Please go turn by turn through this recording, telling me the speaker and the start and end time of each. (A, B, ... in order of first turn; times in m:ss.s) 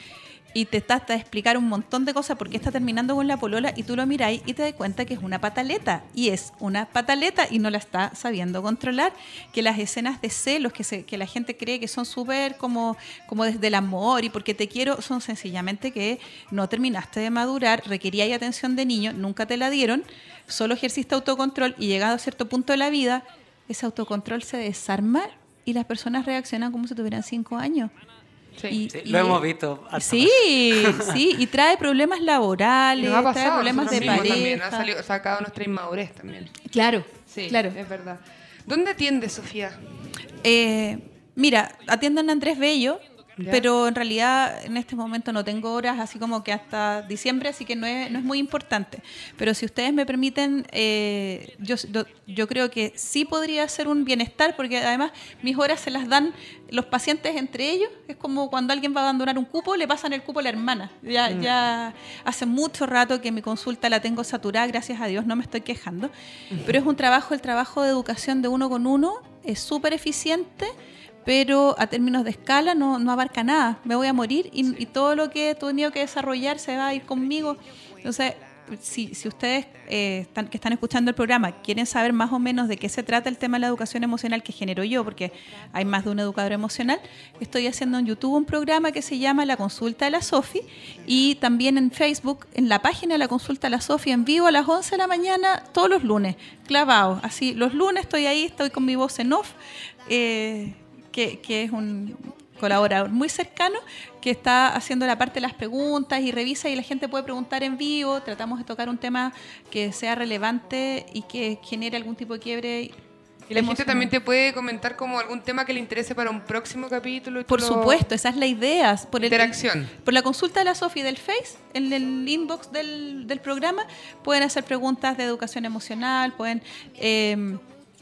0:00.5-0:27.9 A
0:28.7-0:29.4 A
0:28.9-0:31.2 B
0:30.0-0:34.9 A
0:33.0-0:36.5 C
0:33.9-0:34.3 B
0:36.7-0:37.8 A
0:37.3-0:39.8 C
0:40.4-1:06.1 A
0:43.4-0:43.7 C
1:01.3-1:01.5 C
1:06.6-1:10.7 A
1:11.2-1:39.5 A
1:40.1-1:53.0 A
1:53.5-1:54.1 A
1:53.5-1:58.1 C
1:57.5-2:07.6 A
1:59.2-1:59.9 C